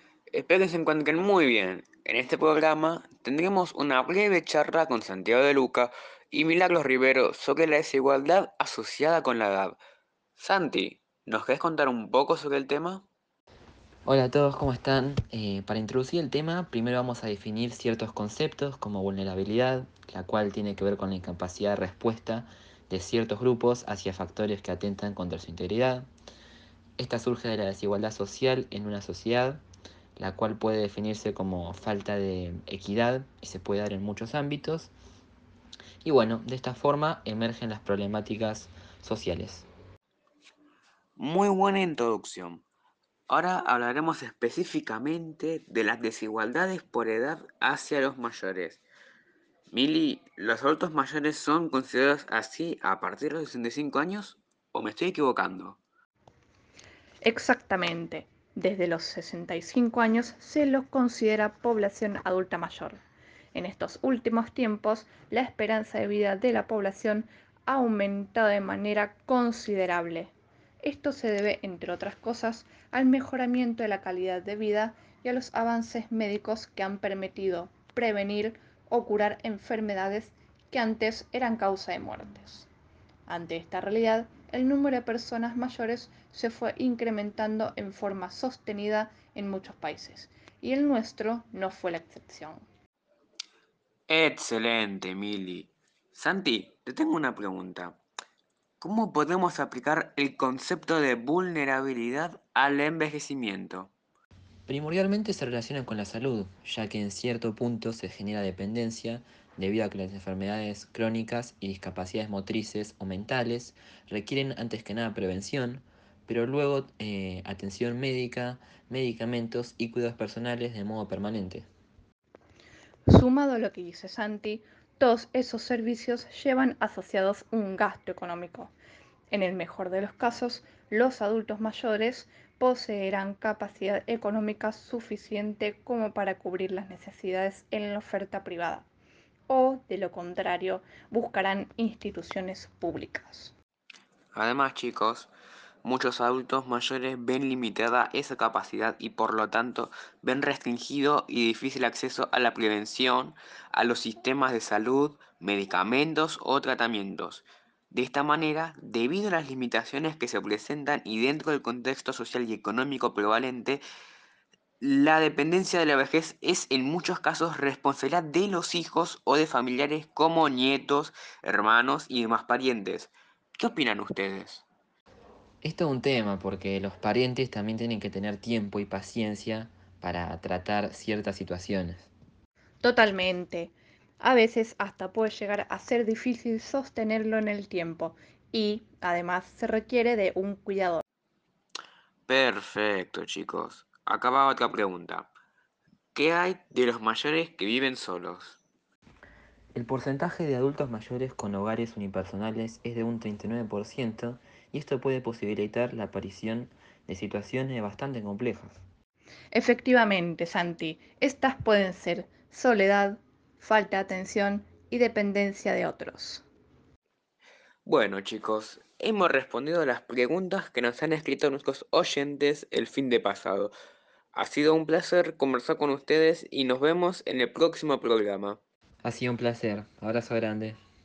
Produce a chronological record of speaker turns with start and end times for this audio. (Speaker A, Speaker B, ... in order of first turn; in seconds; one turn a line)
Speaker A: 0.3-9.8
Speaker A: 10.4-13.1
Speaker B: 14.1-26.1
Speaker B: 27.0-29.6
Speaker B: 30.2-34.9
Speaker B: 36.0-39.7
Speaker A: 41.2-42.6
Speaker A: 43.3-48.8
Speaker A: 49.7-55.8
Speaker C: 57.2-63.0
Speaker C: 63.5-82.7
Speaker C: 83.3-92.6
Speaker A: 94.1-98.0
Speaker A: 98.8-103.9
Speaker B: 104.7-121.7
Speaker C: 123.1-128.7
Speaker C: 129.3-138.9
Speaker C: 139.5-143.5
Speaker A: 144.3-145.3
Speaker A: 145.8-163.8
Speaker A: 164.8-174.6
Speaker B: 175.6-182.1
Speaker C: 182.8-191.0
Speaker A: 192.3-195.3
Speaker A: 196.1-198.6
Speaker B: 199.7-208.8
Speaker C: 209.5-216.4
Speaker A: 217.8-223.7
Speaker A: 224.3-228.6
Speaker B: 229.0-230.8